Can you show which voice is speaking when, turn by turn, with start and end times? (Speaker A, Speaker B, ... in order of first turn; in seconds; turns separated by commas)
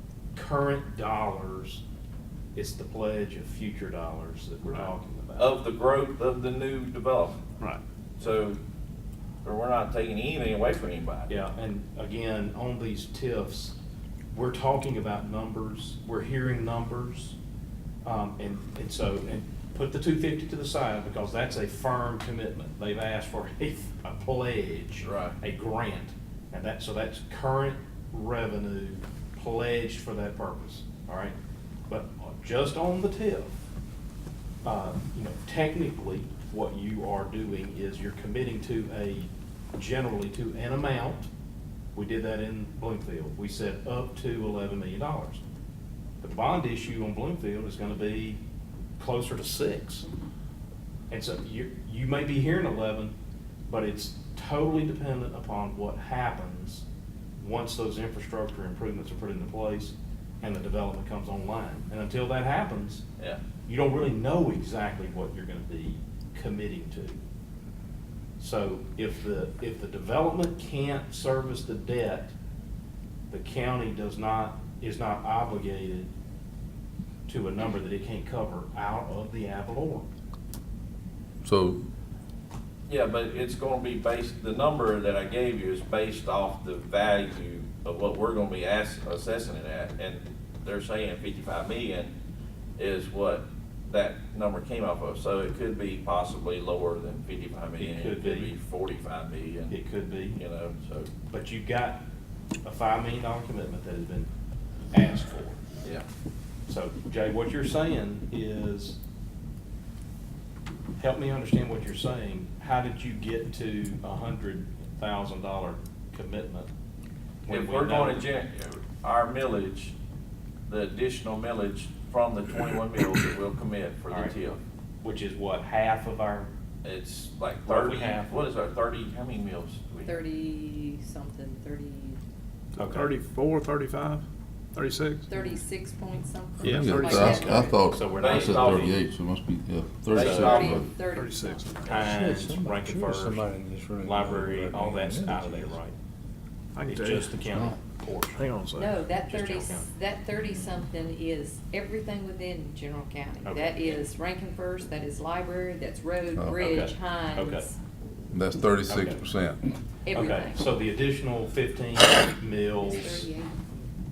Speaker A: 0.3-1.8, Speaker A: 2.5-5.5, Speaker B: 5.4-7.4, Speaker B: 8.2-8.6, Speaker B: 9.4-11.3, Speaker A: 11.3-13.8, Speaker A: 14.3-17.4, Speaker A: 18.0-31.4, Speaker B: 25.0-25.3, Speaker A: 31.9-33.5, Speaker A: 34.6-41.3, Speaker A: 41.9-45.4, Speaker A: 46.2-48.4, Speaker A: 49.0-50.1, Speaker A: 51.1-53.1, Speaker A: 53.7-56.8, Speaker A: 57.4-63.0, Speaker A: 63.6-67.2, Speaker A: 68.4-72.3, Speaker A: 73.3-76.1, Speaker A: 77.3-80.1, Speaker C: 81.4-81.8, Speaker B: 82.9-92.1, Speaker B: 92.8-99.8, Speaker A: 97.8-98.5, Speaker A: 99.7-100.4, Speaker B: 100.3-101.1, Speaker A: 101.3-102.0, Speaker A: 102.6-104.3, Speaker A: 104.9-105.6, Speaker A: 106.7-109.0, Speaker A: 111.0-116.7, Speaker A: 117.5-118.3, Speaker B: 117.5-119.9, Speaker B: 120.7-124.6, Speaker A: 124.1-124.3, Speaker A: 125.0-126.5, Speaker B: 126.8-130.2, Speaker A: 127.7-128.3, Speaker D: 130.1-132.2, Speaker A: 132.8-133.1, Speaker E: 132.8-134.2, Speaker E: 134.7-135.3, Speaker D: 135.3-137.8, Speaker C: 136.6-140.9, Speaker E: 136.6-137.5, Speaker A: 137.1-138.9, Speaker B: 138.1-139.0, Speaker B: 140.1-140.8, Speaker D: 140.1-142.0, Speaker E: 141.0-142.0, Speaker A: 141.8-143.5, Speaker F: 142.0-145.8, Speaker A: 144.0-145.9, Speaker E: 146.7-147.4, Speaker A: 146.8-148.4, Speaker E: 148.3-149.0, Speaker D: 148.8-157.8, Speaker A: 149.1-149.9, Speaker A: 153.4-154.1, Speaker C: 156.3-156.6, Speaker A: 156.6-157.7, Speaker C: 158.3-159.6, Speaker A: 158.9-159.2, Speaker D: 160.1-160.6, Speaker A: 160.1-163.3, Speaker D: 162.8-163.6